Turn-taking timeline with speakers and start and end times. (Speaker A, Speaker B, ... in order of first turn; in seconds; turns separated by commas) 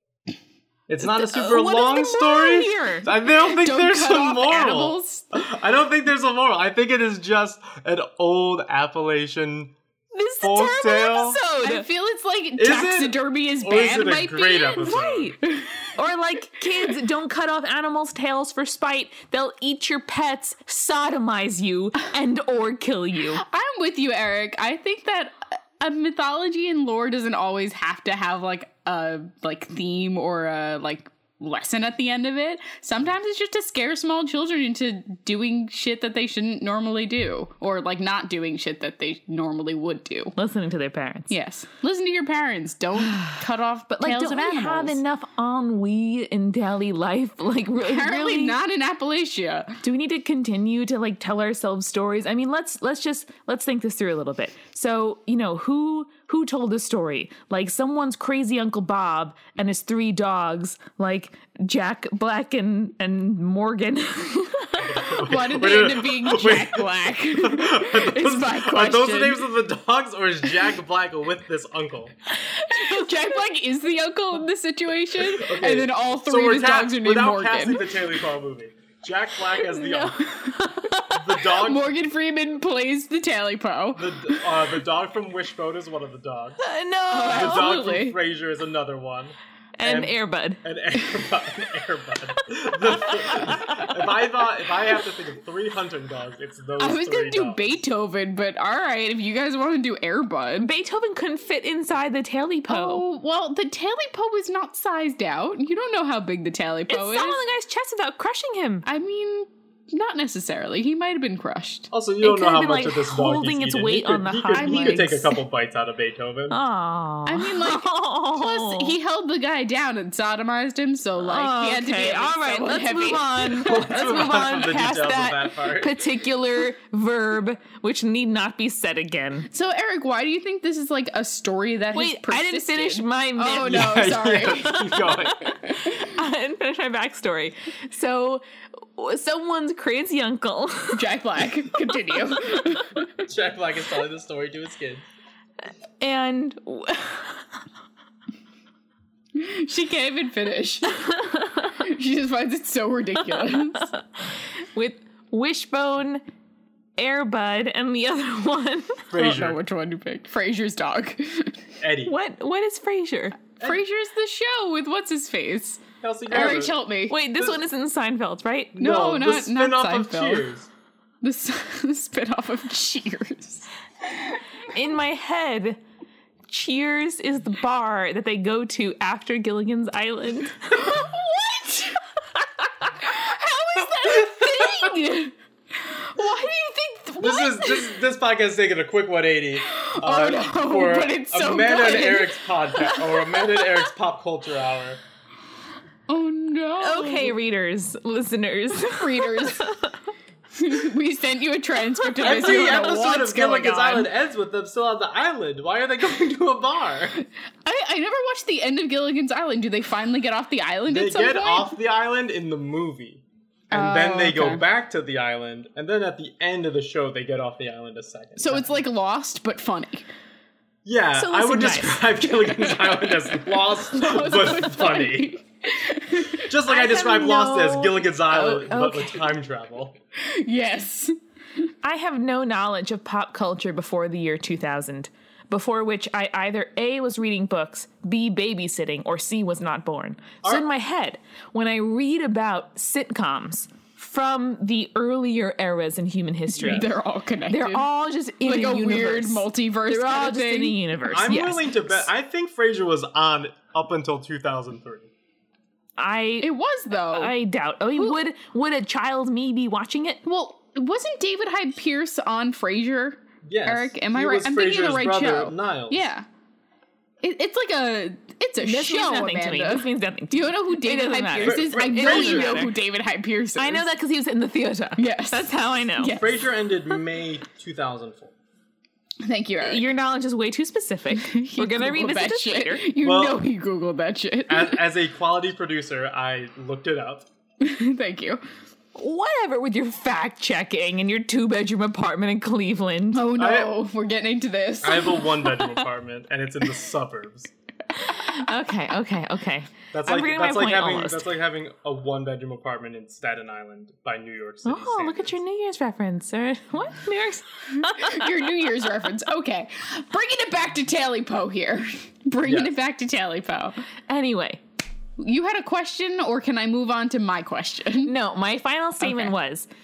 Speaker A: 0.9-9.7, Speaker B: 1.0-3.1, Speaker C: 3.4-5.3, Speaker B: 10.1-11.9, Speaker A: 10.4-11.4, Speaker C: 11.4-15.9, Speaker A: 12.6-15.3, Speaker B: 14.8-15.4, Speaker B: 15.9-23.4, Speaker C: 23.4-40.3, Speaker B: 40.4-41.3, Speaker C: 41.3-45.0, Speaker B: 43.0-43.4, Speaker B: 43.9-48.6, Speaker C: 47.8-49.8, Speaker B: 49.8-65.1, Speaker A: 64.8-72.1, Speaker C: 65.1-69.4, Speaker C: 72.5-77.9, Speaker B: 72.7-73.0, Speaker A: 75.2-80.3, Speaker B: 79.8-81.2, Speaker C: 80.2-80.6, Speaker A: 81.1-81.9, Speaker C: 81.4-84.5, Speaker A: 83.9-86.6, Speaker B: 86.6-88.0, Speaker C: 87.1-88.2, Speaker A: 87.3-97.8, Speaker B: 89.8-90.6, Speaker B: 93.1-93.9, Speaker C: 96.8-100.7, Speaker B: 100.6-103.0, Speaker C: 102.7-107.4, Speaker B: 106.9-108.8, Speaker C: 108.8-111.9, Speaker A: 111.9-116.6, Speaker B: 112.2-115.3, Speaker C: 114.5-115.2, Speaker B: 116.5-118.9, Speaker C: 117.2-123.8, Speaker B: 121.2-129.5, Speaker A: 123.6-126.0, Speaker C: 129.5-134.9, Speaker B: 131.9-134.1, Speaker A: 133.6-135.5, Speaker B: 134.6-141.0, Speaker C: 135.4-136.2, Speaker C: 140.9-143.3, Speaker B: 141.9-142.8, Speaker A: 143.3-145.1, Speaker B: 146.0-147.4, Speaker C: 149.3-151.1, Speaker B: 151.0-151.7, Speaker C: 151.7-153.9, Speaker B: 153.4-154.0, Speaker B: 154.7-156.2, Speaker B: 157.0-159.0, Speaker A: 159.1-159.6, Speaker C: 159.1-161.6, Speaker A: 161.8-162.2, Speaker B: 162.0-163.4, Speaker C: 163.6-167.2, Speaker A: 166.0-166.8, Speaker B: 167.1-168.7, Speaker A: 167.3-167.6, Speaker A: 168.7-170.7, Speaker C: 168.8-170.5, Speaker C: 171.2-173.7, Speaker B: 174.7-175.8, Speaker B: 176.5-181.0, Speaker C: 180.7-182.0, Speaker C: 183.0-185.3, Speaker B: 184.1-185.1, Speaker C: 185.8-187.8, Speaker A: 187.2-195.0, Speaker C: 189.6-193.6, Speaker C: 196.1-197.3, Speaker B: 196.8-199.9, Speaker C: 198.8-199.7, Speaker C: 200.5-204.1, Speaker B: 202.0-202.8, Speaker A: 202.2-207.2, Speaker C: 207.6-211.7, Speaker A: 210.9-218.8, Speaker C: 213.7-214.6, Speaker C: 218.4-220.1, Speaker A: 220.8-225.4, Speaker B: 221.2-222.2, Speaker C: 222.7-226.5, Speaker A: 226.4-229.9, Speaker B: 226.7-229.2, Speaker C: 230.2-231.2, Speaker B: 231.8-246.9, Speaker A: 246.6-246.8, Speaker C: 246.6-247.9, Speaker B: 247.5-252.1, Speaker C: 248.4-250.8, Speaker A: 251.1-255.1, Speaker B: 256.0-256.5, Speaker C: 256.4-257.3, Speaker B: 257.1-260.2, Speaker C: 260.2-266.2, Speaker A: 263.4-266.1, Speaker C: 267.2-273.9, Speaker B: 268.6-272.7, Speaker A: 271.4-272.7, Speaker B: 273.6-276.2, Speaker C: 275.0-276.4, Speaker A: 276.1-278.3, Speaker C: 279.2-279.9, Speaker B: 279.6-282.9, Speaker C: 281.1-284.8, Speaker A: 283.0-283.4, Speaker A: 284.5-287.3, Speaker C: 287.6-288.4, Speaker B: 288.9-293.3, Speaker C: 293.1-295.4, Speaker A: 293.3-293.8, Speaker A: 294.8-297.5, Speaker B: 297.9-301.3, Speaker A: 299.9-305.4, Speaker B: 304.6-308.3, Speaker C: 307.8-313.8, Speaker A: 312.4-312.7, Speaker B: 314.1-314.6, Speaker C: 315.2-318.1, Speaker B: 318.0-319.7, Speaker C: 319.0-319.3